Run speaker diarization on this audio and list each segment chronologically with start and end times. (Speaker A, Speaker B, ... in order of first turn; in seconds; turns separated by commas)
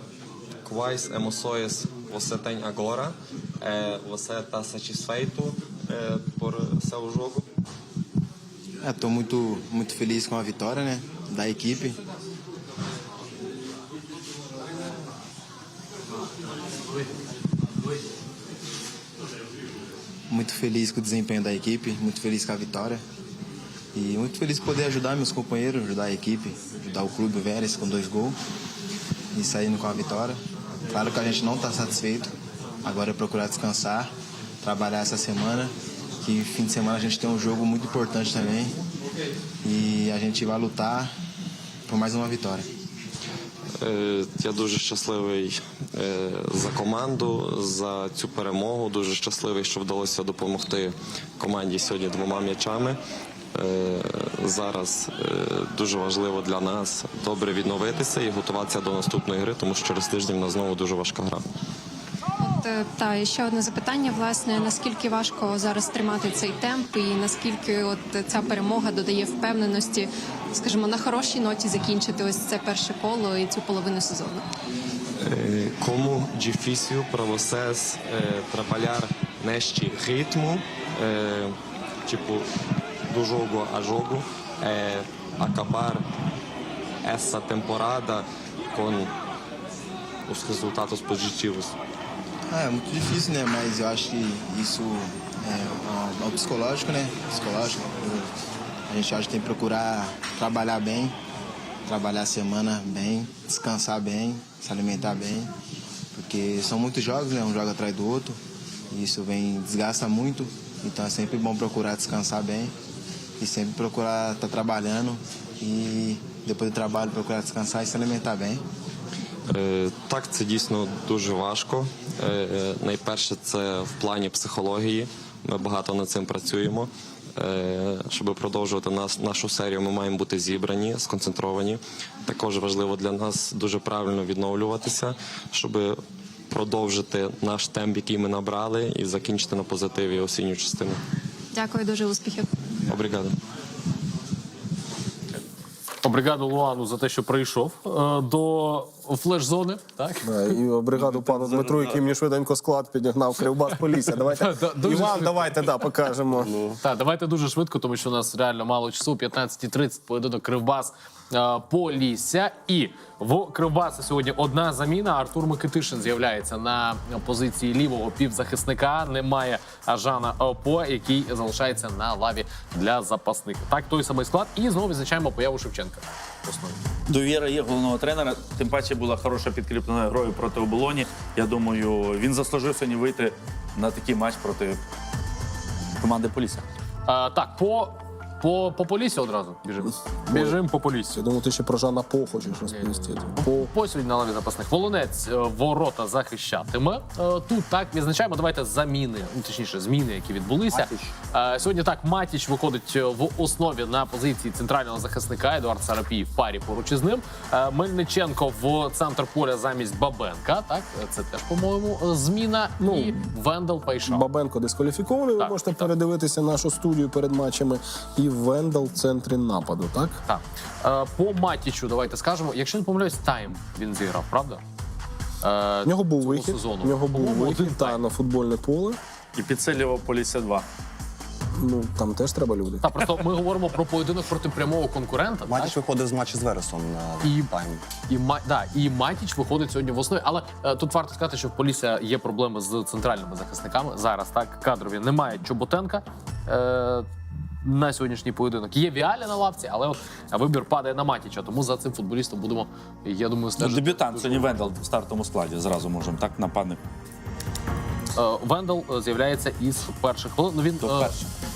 Speaker A: 0.6-7.5, Speaker B: 8.8-12.0, Speaker B: 20.3-23.0, Speaker B: 23.9-28.4, Speaker B: 29.3-30.4, Speaker B: 30.9-32.3, Speaker B: 32.8-34.1, Speaker B: 34.6-38.7, Speaker B: 39.6-41.1, Speaker B: 41.9-42.7, Speaker A: 43.8-53.0, Speaker A: 53.5-61.5, Speaker C: 62.4-74.5, Speaker A: 75.2-82.5, Speaker A: 83.1-86.0, Speaker A: 87.0-89.1, Speaker A: 90.3-91.8, Speaker B: 92.5-98.3, Speaker B: 98.9-101.1, Speaker B: 101.9-105.5, Speaker B: 106.2-108.4, Speaker B: 108.9-112.7, Speaker B: 113.4-118.6, Speaker A: 119.5-136.0, Speaker A: 136.5-141.0, Speaker C: 141.5-142.5, Speaker A: 142.9-143.4, Speaker D: 146.0-150.3, Speaker E: 150.2-156.5, Speaker F: 151.0-152.0, Speaker D: 154.4-155.6, Speaker D: 156.8-176.8, Speaker F: 177.1-184.8, Speaker F: 186.0-186.7, Speaker D: 187.1-191.2, Speaker E: 190.3-190.6, Speaker E: 191.1-193.7, Speaker D: 192.7-214.3, Speaker G: 200.7-201.1, Speaker E: 212.8-213.2, Speaker E: 214.1-220.2, Speaker D: 215.4-215.9, Speaker D: 220.3-224.6, Speaker D: 225.4-228.0, Speaker E: 225.8-229.0, Speaker F: 229.3-230.7, Speaker E: 231.6-232.8, Speaker D: 232.8-235.8, Speaker G: 235.5-237.8, Speaker D: 237.2-237.5, Speaker D: 238.1-247.1, Speaker D: 247.6-254.7, Speaker F: 253.6-256.8, Speaker D: 258.1-261.2, Speaker F: 260.8-261.2